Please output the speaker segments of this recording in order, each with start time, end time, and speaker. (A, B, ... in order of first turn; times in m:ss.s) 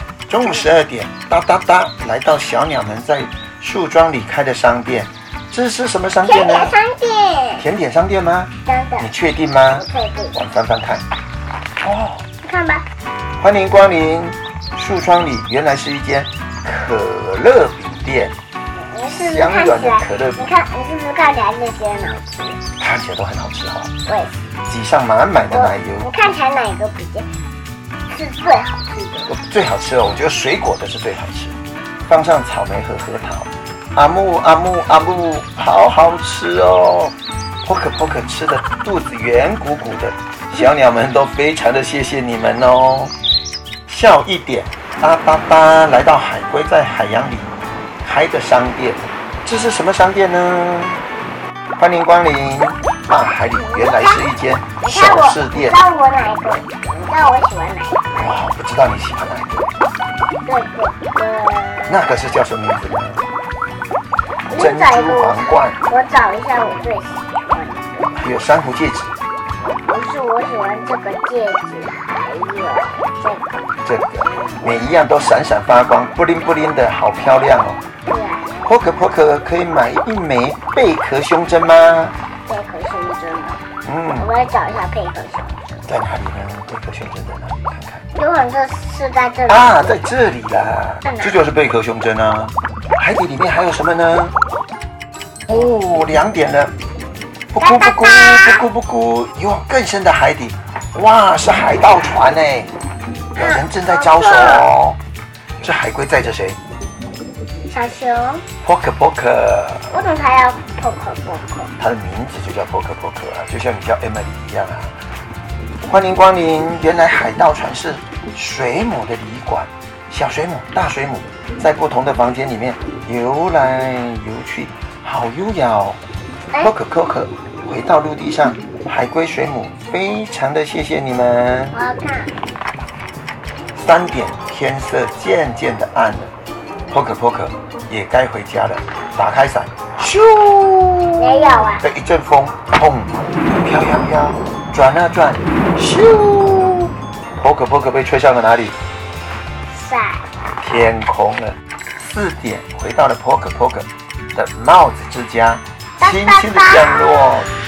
0:00.3-0:06.7 A
0:06.2-0:07.6 B
0:07.6-0:11.0 A
0:08.6-0:09.1 B
0:09.7-0:10.4 B
0:11.8-0:12.2 A
0:12.4-0:12.8 B
0:13.4-0:18.3 A
0:18.7-0:22.6 B
0:19.1-0:20.5 A
0:22.8-0:24.0 A
0:24.0-0:24.5 B
0:24.7-0:26.1 A
0:25.5-0:27.3 B
0:28.1-0:29.2 B
0:29.2-0:31.6 A
0:32.1-0:43.1 A
0:43.9-0:47.5 A
0:48.0-0:51.0 A
0:51.8-0:55.8 A
0:53.4-0:54.2 B
0:54.8-0:58.3 B
0:58.1-0:59.7 A
1:00.4-1:02.3 B
1:01.9-1:03.2 A
1:04.5-1:08.1 B
1:04.6-1:05.8 A
1:08.1-1:09.1 A
1:09.8-1:13.6 B
1:13.8-1:17.8 A
1:18.1-1:18.6 B
1:18.6-1:22.1 A
1:22.5-1:23.6 B
1:23.8-1:24.3 A
1:24.2-1:25.9 B
1:25.8-1:28.0 A
1:28.1-1:30.0 B
1:29.5-1:34.3 A
1:31.0-1:31.4 B
1:35.5-1:36.7 A
1:37.5-1:42.7 A
1:37.6-1:38.6 B
1:43.3-1:45.0 A
1:43.4-1:44.7 B
1:45.6-1:46.6 A
1:47.6-1:48.4 B
1:48.6-1:49.9 A
1:49.9-1:51.7 B
1:51.8-1:55.0 A
1:55.8-2:06.0 A
2:06.6-2:11.8 A
2:11.7-2:12.3 B
2:13.7-2:16.3 A
2:16.9-2:28.8 A
2:21.2-2:21.8 B
2:29.7-2:30.3 B
2:30.6-2:37.5 A
2:36.0-2:37.3 B